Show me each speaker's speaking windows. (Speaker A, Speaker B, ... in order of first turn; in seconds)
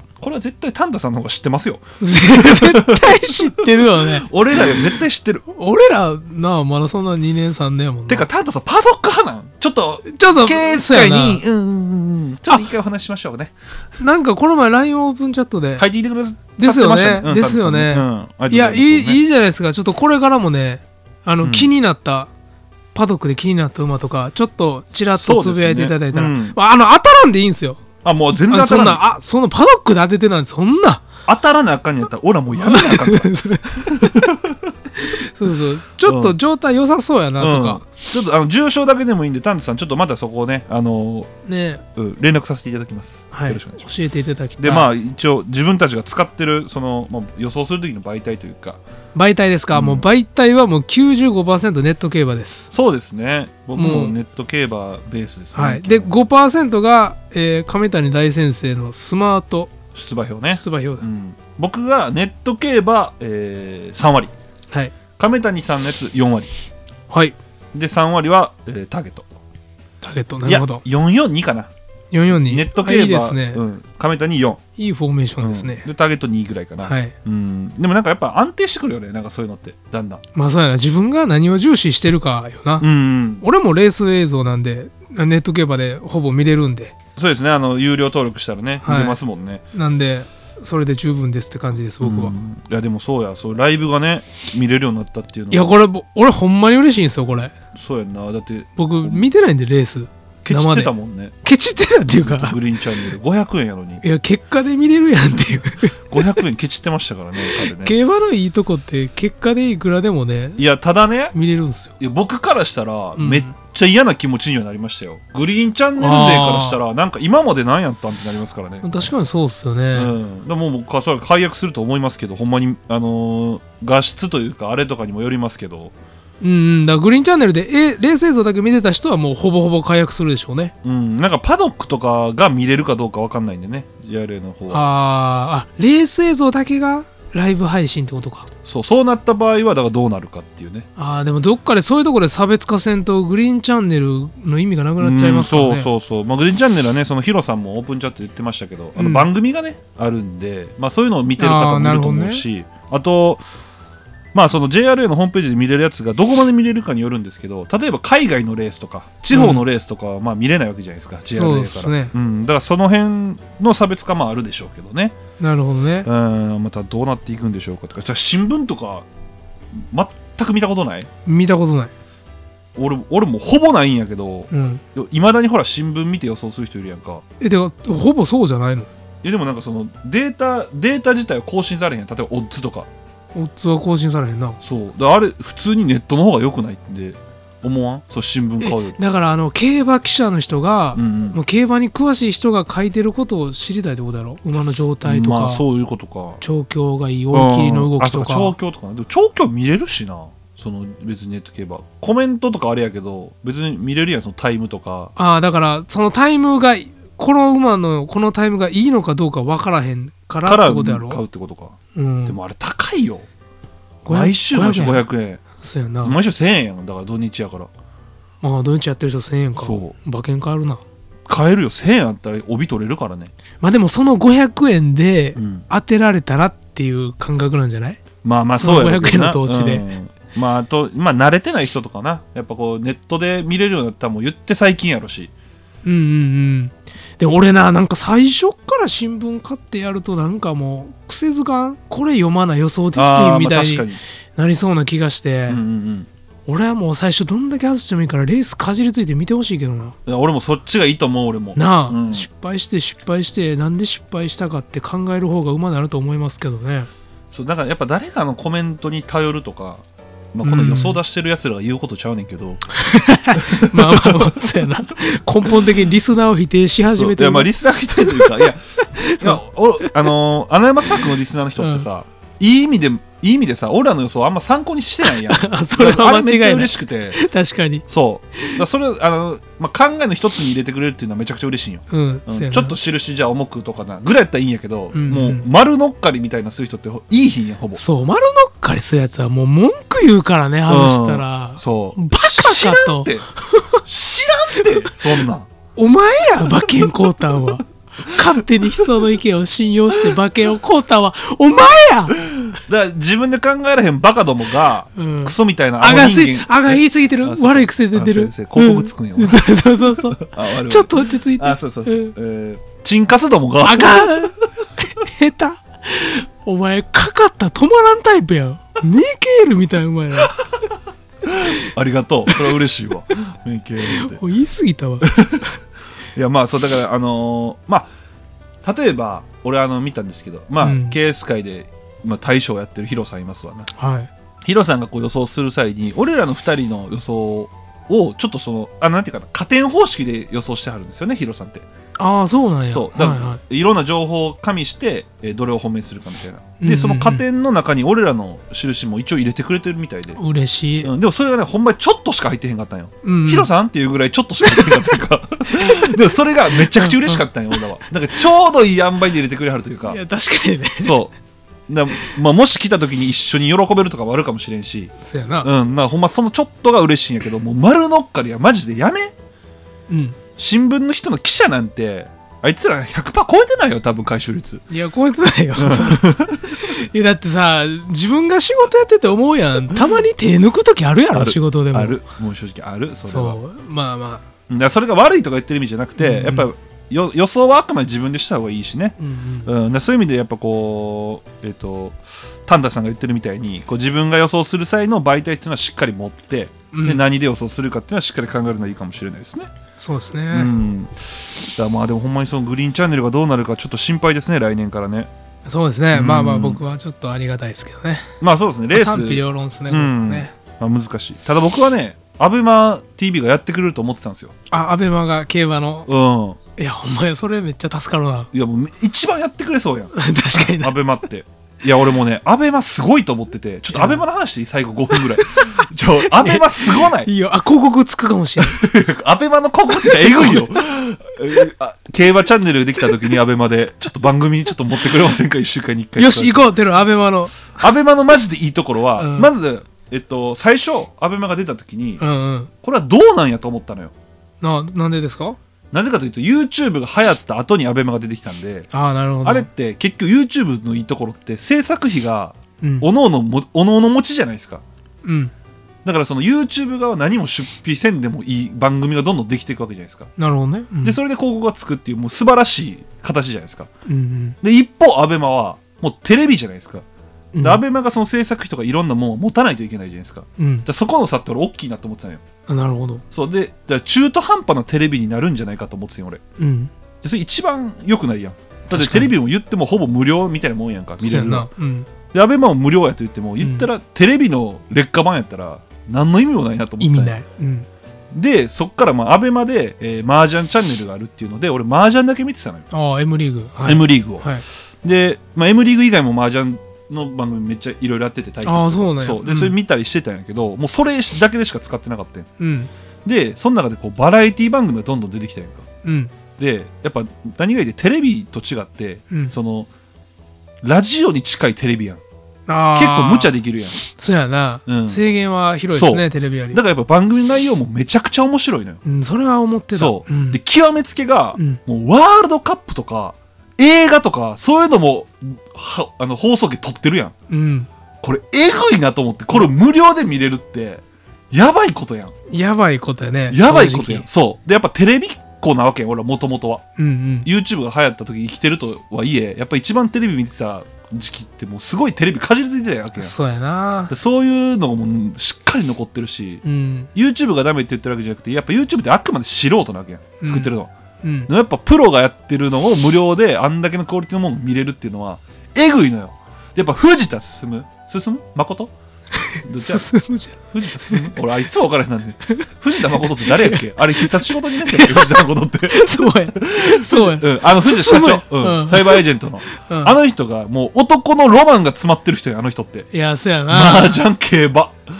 Speaker A: 0.2-5.4, 8.1-13.5, 15.8-19.2, 21.4-21.7, 25.0-26.6, 28.0-29.0, 31.2-34.7, 36.0-36.4, 37.4-41.3, 41.9-43.9, 44.6-48.8, 49.7-50.1, 52.7-56.1, 59.9-64.3, 65.2-66.5, 67.7-69.3, 70.4-71.7, 72.3-74.6, 75.4-80.2, 82.8-83.4, 87.2-89.6, 92.0-95.7, 97.7-99.2, 100.4-101.3, 102.1-104.0, 106.1-107.9, 110.6-111.3, 112.0-119.1, 119.9-125.9, 130.8-134.8, 138.6-140.9, 145.0-153.4, 154.3-165.2, 166.0-169.1, 169.7-171.1, 172.8-177.2, 179.2-182.9, 184.6-189.0, 190.9-191.4, 195.0-196.4, 197.3-205.1, 210.4-213.3, 214.1-215.4, 216.0-217.7, 219.6-219.9, 221.3-223.3, 225.3-225.7, 228.2-235.3, 242.9-244.0, 245.5-246.1, 250.1-252.3, 257.3-262.6, 263.3-264.4, 266.8-277.2, 277.9-287.8, 290.7-293.3, 293.8-295.5, 302.3-309.4, 310.1-314.3, 321.2-324.2, 325.0-325.5, 326.1-327.9, 328.6-333.7, 334.4-341.6, 342.7-350.2, 350.8-360.0, 360.8-361.1, 361.7-369.1, 370.4-374.6, 375.6-376.5, 381.1-383.4, 384.5-399.5, 400.3-400.9, 401.6-405.1, 405.9-406.6, 408.2-414.3, 415.9-416.4, 418.3-427.1, 428.4-436.5, 437.5-442.0, 442.6-443.9, 445.7-448.7, 449.2-454.6, 455.8-460.1, 460.8-463.7, 464.4-466.8, 467.4-472.2, 473.1-476.2, 477.0-481.5, 482.1-487.1, 488.1-492.7, 493.6-494.3, 494.8-502.3, 503.0-505.7, 506.4-509.7, 510.6-512.0, 512.7-513.8, 514.7-515.0, 515.7-518.8, 519.7-527.1, 528.0-532.1, 533.3-536.6, 537.2-543.1, 543.9-546.4, 546.9-550.7, 551.3-558.7, 559.4-559.9, 560.5-572.9, 573.5-574.8
Speaker B: 2.0-4.9, 5.5-8.2, 10.1-11.4, 14.0-15.9, 16.6-22.3, 22.9-27.8, 28.4-31.0, 32.6-34.3, 34.9-37.8, 41.5-41.8, 43.3-44.9, 49.1-52.7, 53.7-54.1, 55.5-59.7, 60.5-61.0, 67.1-67.3, 70.0-70.8, 72.1-73.6, 74.8-75.8, 76.8-77.1, 80.3-82.9, 83.4-86.9, 88.8-89.2, 89.7-92.3, 95.5-97.5, 98.8-100.9, 101.4-102.6, 104.0-106.4, 107.5-110.6, 111.3-111.9, 113.2-113.5, 116.0-116.8, 118.8-120.1, 126.4-130.7, 134.7-138.5, 141.0-145.9, 149.0-149.3, 151.4-152.4, 159.3-159.6, 161.3-162.1, 165.4-166.1, 171.2-171.9, 174.5-174.8, 177.4-178.9, 183.3-184.6, 188.6-195.6, 196.4-198.5, 205.2-211.2, 211.9-212.4, 214.0-216.2, 218.4-220.8, 223.6-228.0, 228.5-229.8, 235.8-245.6, 246.5-249.9, 251.6-256.9, 260.4-261.0, 262.7-270.1, 271.6-271.9, 275.1-277.8, 281.9-282.8, 284.9-285.4, 287.8-293.8, 294.6-294.9, 295.8-302.2, 304.9-312.1, 313.6-320.4, 323.8-325.1, 330.6-331.0, 333.8-334.1, 342.0-343.4, 346.6-347.2, 350.1-350.9, 353.0-353.5, 354.4-354.9, 356.5-357.2, 359.9-361.0, 365.0-365.5, 369.9-370.2, 374.7-382.0, 383.1-384.2, 386.0-386.5, 389.0-389.5, 396.7-397.0, 399.8-400.5, 405.4-408.1, 408.7-410.3, 414.5-415.9, 416.6-418.3, 419.9-420.8, 423.7-424.0, 426.0-428.6, 429.8-430.5, 436.0-437.6, 439.0-439.3, 442.0-442.5, 444.4-445.4, 448.7-449.5, 452.6-452.9, 455.0-455.3, 460.2-461.0, 463.9-464.4, 467.3-467.6, 470.4-470.6, 472.5-473.0, 476.4-476.7, 478.7-479.1, 481.0-481.9, 483.4-483.7, 486.8-487.7, 492.7-494.4, 498.4-499.5, 502.4-502.7, 505.8-506.1, 512.5-513.3, 513.9-516.6, 518.8-520.4, 527.3-527.7, 532.3-534.1, 536.8-537.3, 543.0-543.9, 546.4-546.9, 550.2-550.5, 551.0-551.3, 559.2-561.1, 563.1-569.0, 569.6-570.0, 572.9-574.0